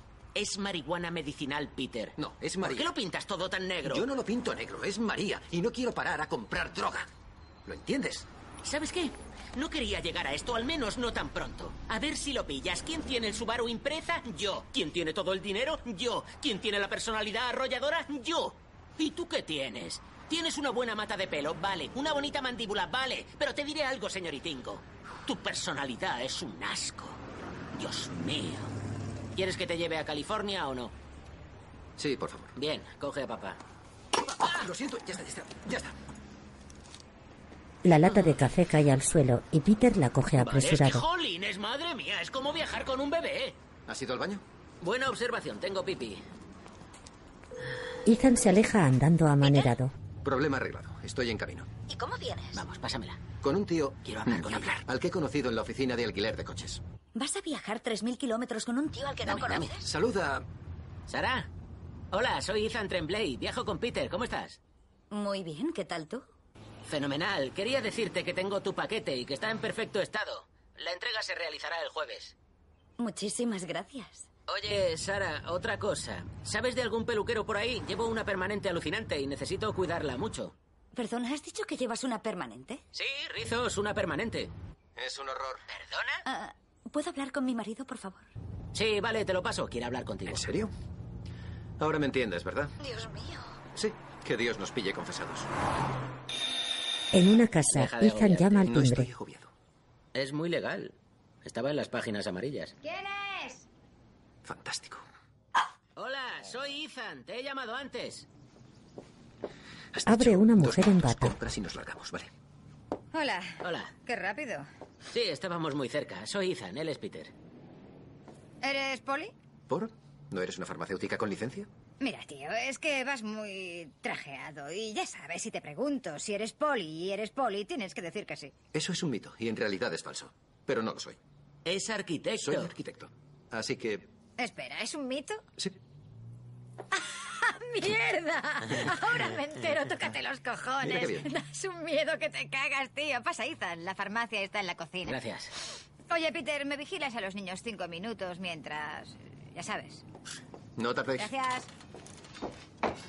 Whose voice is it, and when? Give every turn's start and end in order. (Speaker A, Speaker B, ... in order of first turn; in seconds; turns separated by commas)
Speaker A: 0.3-4.1, Speaker B: 2.2-2.9, Speaker B: 3.9-7.1, Speaker B: 7.7-8.3, Speaker A: 8.6-27.2, Speaker A: 27.7-28.7, Speaker A: 29.4-30.9, Speaker B: 32.0-32.5, Speaker A: 32.5-33.6, Speaker B: 34.4-36.0, Speaker C: 37.8-41.1, Speaker A: 40.4-43.6, Speaker B: 43.9-44.4, Speaker A: 44.8-46.2, Speaker C: 48.0-49.9, Speaker D: 49.4-49.7, Speaker B: 50.2-51.7, Speaker D: 51.9-52.6, Speaker A: 52.5-53.2, Speaker B: 53.4-56.8, Speaker A: 54.0-54.8, Speaker D: 57.1-59.9, Speaker A: 59.2-59.7, Speaker B: 59.8-60.5, Speaker A: 61.1-61.5, Speaker A: 62.1-64.6, Speaker D: 65.1-66.3, Speaker A: 66.9-72.3, Speaker D: 73.0-74.3, Speaker A: 74.5-80.5, Speaker D: 80.9-82.8, Speaker A: 82.9-84.5, Speaker B: 85.0-85.6, Speaker A: 85.7-86.2, Speaker D: 86.2-88.3, Speaker A: 88.7-90.5, Speaker B: 90.3-90.7, Speaker B: 91.8-92.8, Speaker D: 92.8-93.6, Speaker B: 93.7-95.5, Speaker C: 97.1-99.1, Speaker A: 97.7-98.7, Speaker B: 98.7-99.5, Speaker A: 100.1-102.8, Speaker E: 102.8-103.7, Speaker B: 104.5-105.0, Speaker A: 106.0-108.3, Speaker B: 109.9-112.3, Speaker C: 110.1-111.3, Speaker E: 113.1-114.7, Speaker A: 113.6-113.9, Speaker A: 115.1-117.3, Speaker E: 118.6-119.3, Speaker B: 119.7-121.7, Speaker E: 122.0-128.6, Speaker B: 128.7-131.2, Speaker A: 131.7-132.7, Speaker B: 132.4-134.1, Speaker E: 134.4-135.4, Speaker E: 136.9-145.2, Speaker B: 140.8-141.3, Speaker A: 145.1-145.5, Speaker E: 146.1-150.1, Speaker B: 150.8-151.3, Speaker E: 151.2-151.7